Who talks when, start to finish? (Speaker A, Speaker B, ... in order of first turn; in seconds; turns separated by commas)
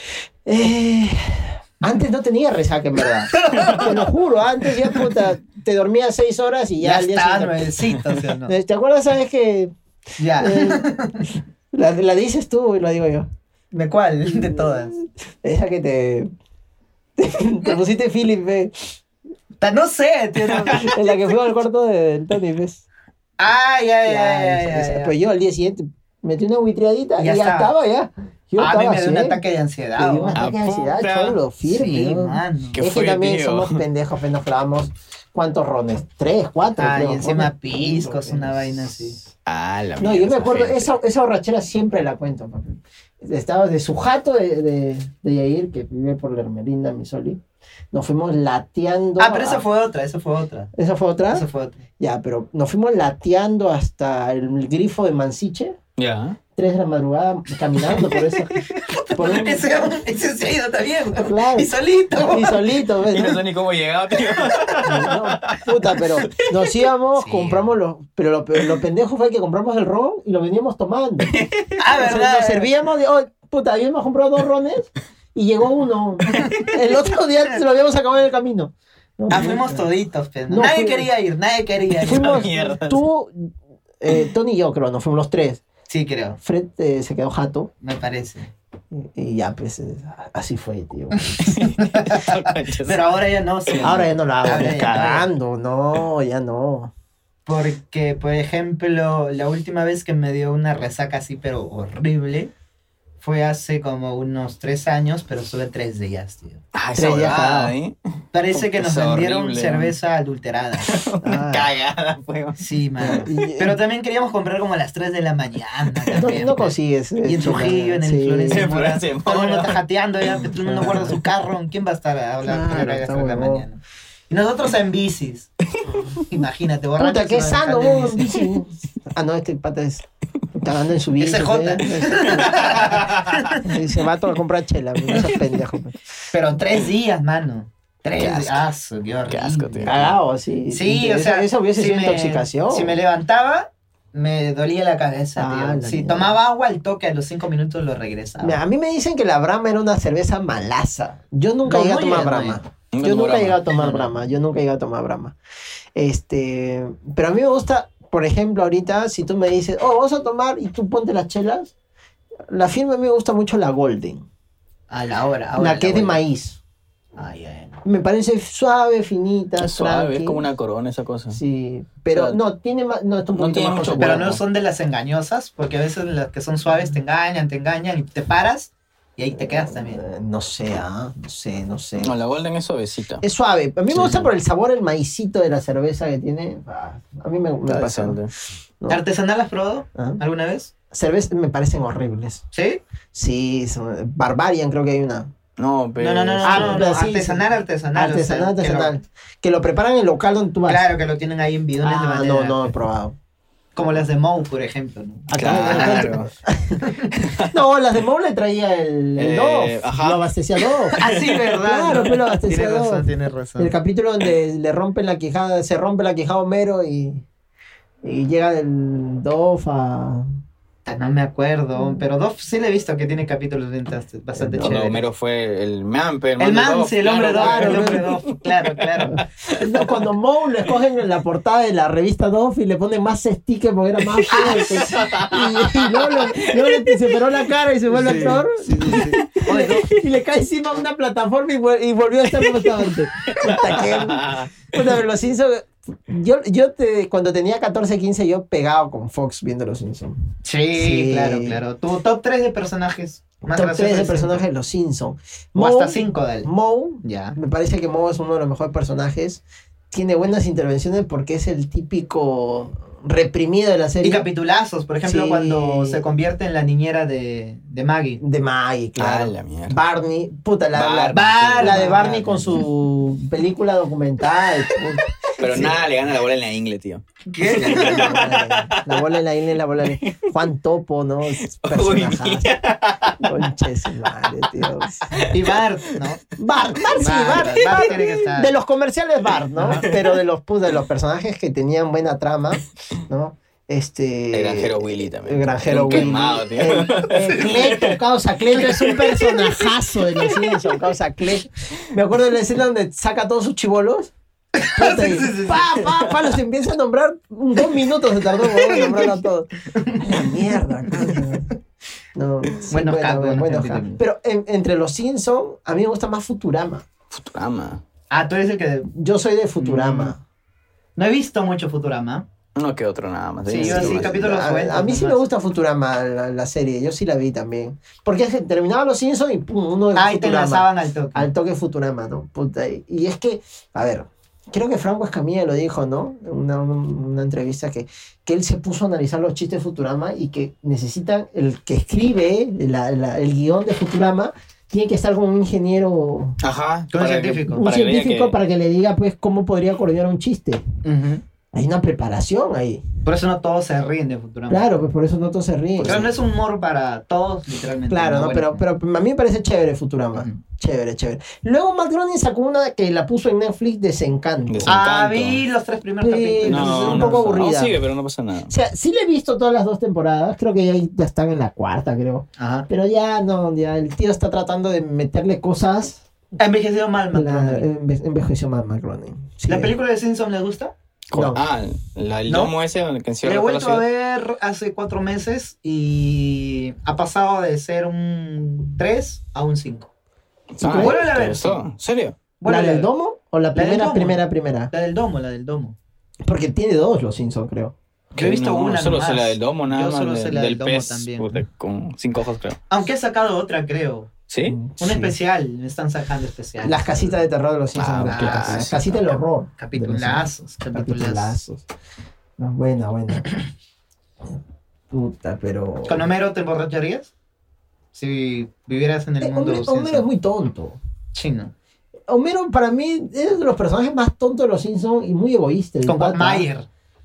Speaker A: 0.5-9.7, Speaker B: 3.4-4.0, Speaker B: 6.8-8.5, Speaker B: 10.2-11.3, Speaker A: 10.4-10.9, Speaker A: 11.7-13.3, Speaker B: 13.7-15.0, Speaker A: 14.3-16.3, Speaker A: 17.2-18.8, Speaker B: 19.6-21.2, Speaker A: 20.6-22.8, Speaker B: 23.4-25.1, Speaker A: 24.1-29.4, Speaker B: 27.2-27.7, Speaker B: 28.6-30.4, Speaker A: 30.0-39.1, Speaker C: 30.4-31.4, Speaker B: 31.6-32.8, Speaker C: 32.8-33.8, Speaker B: 36.8-39.2, Speaker C: 39.5-40.9, Speaker A: 40.0-47.4, Speaker A: 47.9-49.6, Speaker B: 49.2-50.7, Speaker A: 50.7-51.5, Speaker B: 51.3-51.8, Speaker A: 52.0-55.8, Speaker C: 56.0-56.4, Speaker A: 56.6-58.6, Speaker B: 58.9-62.7, Speaker A: 59.1-59.7, Speaker A: 61.2-63.4, Speaker C: 63.1-66.7, Speaker A: 64.8-71.4, Speaker B: 67.2-67.7, Speaker C: 71.3-71.8, Speaker B: 71.8-72.7, Speaker A: 71.9-79.9, Speaker B: 76.3-76.7, Speaker B: 79.3-82.5, Speaker A: 80.5-81.1, Speaker C: 82.0-83.0, Speaker A: 82.0-83.5, Speaker A: 84.0-85.6, Speaker B: 85.9-86.4, Speaker A: 86.4-87.7, Speaker B: 87.8-88.5, Speaker A: 88.9-91.5, Speaker B: 91.3-95.3, Speaker C: 91.4-93.2, Speaker C: 93.7-94.0, Speaker A: 93.8-96.9, Speaker B: 97.5-102.5, Speaker B: 103.2-106.6, Speaker C: 106.8-108.0, Speaker A: 106.9-107.8, Speaker B: 108.3-111.0, Speaker C: 108.5-110.0, Speaker C: 110.8-113.5, Speaker A: 111.2-111.7, Speaker B: 112.6-125.5, Speaker A: 113.0-113.8, Speaker C: 115.9-116.4, Speaker A: 116.1-118.7, Speaker C: 118.5-119.8, Speaker A: 120.5-121.2, Speaker A: 122.4-123.7, Speaker B: 126.2-128.4, Speaker A: 127.0-132.9, Speaker B: 131.2-133.6, Speaker C: 132.6-133.4, Speaker A: 133.6-136.0, Speaker C: 135.1-135.4, Speaker B: 136.3-140.0, Speaker C: 138.2-138.7, Speaker C: 139.3-140.2, Speaker A: 139.8-143.0, Speaker B: 140.7-148.6, Speaker A: 145.4-146.4, Speaker A: 148.4-155.3, Speaker B: 151.7-152.6, Speaker C: 152.9-154.1, Speaker B: 153.8-154.0, Speaker A: 155.9-161.7, Speaker A: 162.5-164.3, Speaker B: 164.9-166.2, Speaker A: 165.6-166.6, Speaker B: 167.2-167.8, Speaker A: 167.8-170.4, Speaker C: 169.6-171.4, Speaker A: 171.3-174.4, Speaker C: 173.3-174.4, Speaker B: 174.0-180.0, Speaker A: 179.3-182.1, Speaker C: 182.0-183.2, Speaker A: 183.2-188.2, Speaker C: 183.9-184.3, Speaker C: 187.7-188.3, Speaker B: 188.9-190.7, Speaker A: 190.0-190.2, Speaker A: 190.9-192.4, Speaker B: 192.5-192.8, Speaker A: 193.1-195.3, Speaker C: 195.6-196.9, Speaker B: 196.0-199.0, Speaker A: 196.4-200.8, Speaker B: 200.7-202.7, Speaker A: 201.8-203.2, Speaker B: 203.8-206.2, Speaker A: 205.3-217.2, Speaker C: 205.3-206.3, Speaker B: 206.8-207.1, Speaker C: 209.2-211.3, Speaker B: 211.0-213.7, Speaker A: 218.0-220.3, Speaker B: 220.9-225.0, Speaker A: 224.3-224.8, Speaker C: 224.6-229.9, Speaker B: 226.4-229.2, Speaker A: 227.3-228.1, Speaker A: 229.6-250.2, Speaker C: 234.2-237.2, Speaker B: 237.9-239.9, Speaker C: 237.9-239.8, Speaker C: 242.4-244.8, Speaker B: 250.4-254.4, Speaker A: 250.7-251.6, Speaker A: 253.5-264.3, Speaker B: 255.6-256.5, Speaker B: 257.0-257.4, Speaker B: 264.0-268.2, Speaker A: 265.1-266.0, Speaker A: 268.2-275.8, Speaker C: 269.0-269.8, Speaker C: 270.7-272.7, Speaker B: 271.1-272.2, Speaker C: 275.4-279.2, Speaker B: 277.3-278.2, Speaker A: 277.5-282.5, Speaker C: 279.8-280.3, Speaker C: 281.4-283.5, Speaker A: 283.2-285.1, Speaker C: 284.6-285.6, Speaker B: 285.3-286.2, Speaker A: 286.4-304.1, Speaker C: 286.8-288.0, Speaker B: 286.9-288.6, Speaker B: 289.6-289.9, Speaker C: 289.6-290.2, Speaker C: 294.3-298.0, Speaker B: 295.9-296.2, Speaker C: 298.6-299.5, Speaker B: 304.6-305.8, Speaker A: 304.7-311.5, Speaker B: 309.8-310.3, Speaker A: 312.1-316.9, Speaker B: 312.7-314.0, Speaker C: 317.1-317.8, Speaker B: 318.1-318.9, Speaker A: 318.9-320.2, Speaker B: 319.6-320.1, Speaker B: 321.0-322.2, Speaker C: 322.6-324.1, Speaker B: 323.5-325.3, Speaker A: 323.6-346.4, Speaker B: 329.9-331.3, Speaker C: 346.4-348.4, Speaker B: 346.9-347.7, Speaker A: 347.5-350.6, Speaker B: 350.8-351.2, Speaker A: 351.5-352.8, Speaker B: 353.1-354.8, Speaker A: 354.5-356.1, Speaker B: 355.8-358.6, Speaker A: 357.9-364.8, Speaker C: 364.5-365.4, Speaker B: 364.7-367.3, Speaker A: 366.0-367.8, Speaker C: 366.4-368.5, Speaker A: 368.5-376.0, Speaker B: 372.4-372.7, Speaker B: 376.4-377.7, Speaker A: 377.1-379.7, Speaker B: 379.5-380.7, Speaker C: 381.1-383.9, Speaker A: 381.1-381.4, Speaker B: 382.3-382.5, Speaker B: 383.2-389.9, Speaker C: 390.6-392.2, Speaker A: 390.6-391.0, Speaker B: 390.7-391.6, Speaker B: 392.4-392.9, Speaker A: 392.5-394.7, Speaker B: 393.5-395.8, Speaker A: 396.2-397.7, Speaker B: 398.1-401.4, Speaker C: 398.1-402.6, Speaker B: 402.7-404.1, Speaker C: 404.3-404.6, Speaker A: 404.5-405.1, Speaker B: 404.8-407.2, Speaker A: 406.6-411.6, Speaker C: 407.8-409.0, Speaker B: 408.0-408.6, Speaker B: 409.6-411.4, Speaker A: 412.4-413.3, Speaker A: 414.9-416.1, Speaker B: 415.9-417.1, Speaker B: 417.9-420.1, Speaker A: 419.2-420.8, Speaker B: 421.1-421.5, Speaker A: 422.1-426.5, Speaker B: 425.9-426.7